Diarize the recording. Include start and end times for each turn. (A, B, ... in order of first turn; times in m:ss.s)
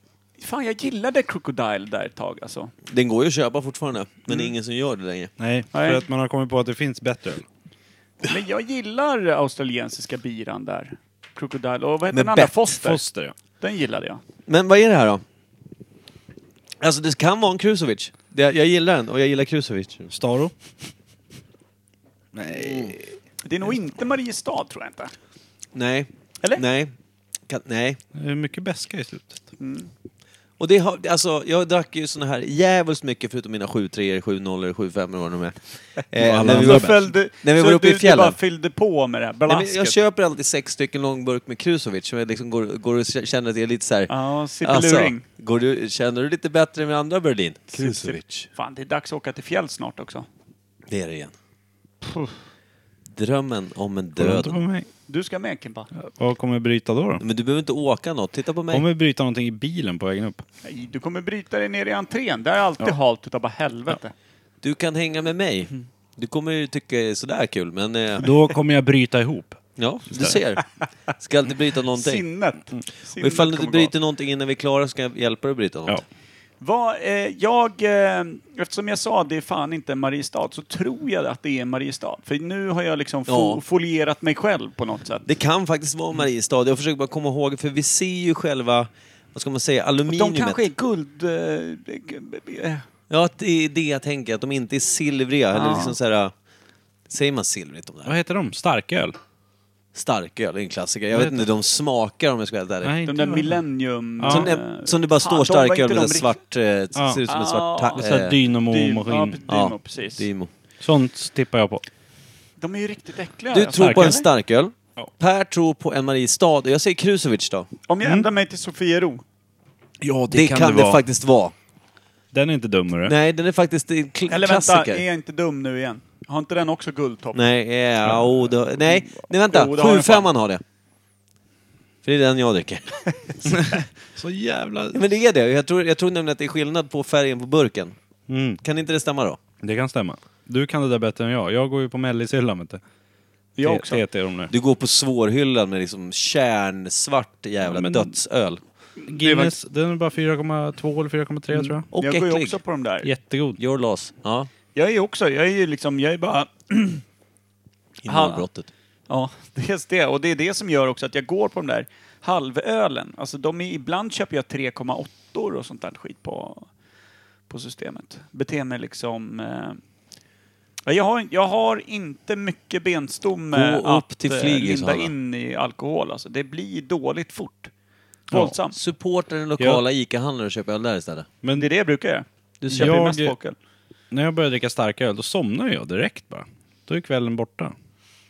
0:00.4-0:02.7 A
0:02.9-0:05.3 B
0:05.4-0:07.4 C
0:05.7-0:06.1 A
0:08.2-0:13.0 A
0:12.1-0:12.5 B
0:12.7-0:13.3 C
0:13.6-0:14.2 A
0:14.5-0:15.2 B
0:16.8-0:20.1 B
0:20.1-0:20.5 C
0:22.3-0:23.0 C
0:22.5-0:23.0 B
0:23.4-0:25.1 A
0:25.7-0:26.9 B
0:27.5-0:28.0 B
0:28.1-0:29.4 C
0:29.6-0:29.9 A
0:30.6-0:38.4 B
0:36.1-0:37.0 C
0:36.4-0:40.0 A
0:39.5-0:44.1 B
0:44.1-0:45.2 A
0:44.6-0:48.5 B
0:47.8-0:50.3 A
0:50.9-0:51.3 B
0:52.0-0:52.3 A
0:53.1-0:54.6 B
0:54.2-0:54.9 C
0:55.1-0:55.9 A
0:55.9-0:57.2 C
0:57.2-0:58.8 B
0:58.7-1:00.4 C
1:00.6-1:04.1 A
1:04.6-1:08.3 B
1:08.2-1:10.4 C
1:09.8-1:12.2 B
1:12.0-1:13.9 A
1:13.2-1:16.0 B
1:16.6-1:25.3 A
1:23.3-1:23.6 B
1:25.3-1:30.6 B
1:30.1-1:32.8 A
1:33.1-1:36.3 B
1:35.5-1:35.9 A
1:37.1-1:38.1 B
1:38.0-1:39.2 C
1:39.9-1:43.0 B
1:41.1-1:41.4 C
1:42.8-1:43.6 C
1:43.0-1:46.3 A
1:44.2-1:44.5 C
1:44.2-1:48.4 B
1:47.0-1:47.2 C
1:47.2-1:48.0 A
1:48.0-1:49.4 C
1:48.7-1:50.2 A
1:49.5-1:50.5 B
1:50.8-1:51.8 C
1:52.6-1:54.2 A
1:53.5-1:57.7 B
1:53.8-1:54.2 C
1:57.9-1:59.2 A
2:00.0-2:01.0 C
2:00.3-2:01.5 B
2:02.3-2:03.1 C
2:03.0-2:05.0 B
2:04.3-2:07.4 A
2:07.3-2:10.6 B
2:09.5-2:10.3 A
2:12.0-2:13.4 B
2:13.5-2:15.0 C
2:14.9-2:17.9 B
2:18.3-2:18.6 C
2:18.6-2:19.4 B
2:19.6-2:22.8 C
2:23.6-2:24.0 A
2:23.6-2:24.5 C
2:24.5-2:28.6 B
2:27.6-2:28.2 C
2:29.0-2:31.9 C
2:29.1-2:29.5 A
2:31.5-2:33.1 A
2:31.9-2:32.6 B
2:33.0-2:33.6 C
2:33.6-2:34.5 B
2:34.7-2:37.0 A
2:38.0-2:38.7 B
2:38.1-2:38.4 A
2:39.1-2:46.7 A
2:47.5-2:49.8 A
2:50.8-2:57.7 A
2:53.5-2:55.1 B
2:58.3-2:58.8 A
2:58.7-3:01.3 B
3:01.5-3:03.6 A
3:02.6-3:03.1 B
3:02.7-3:03.3 C
3:04.1-3:07.7 C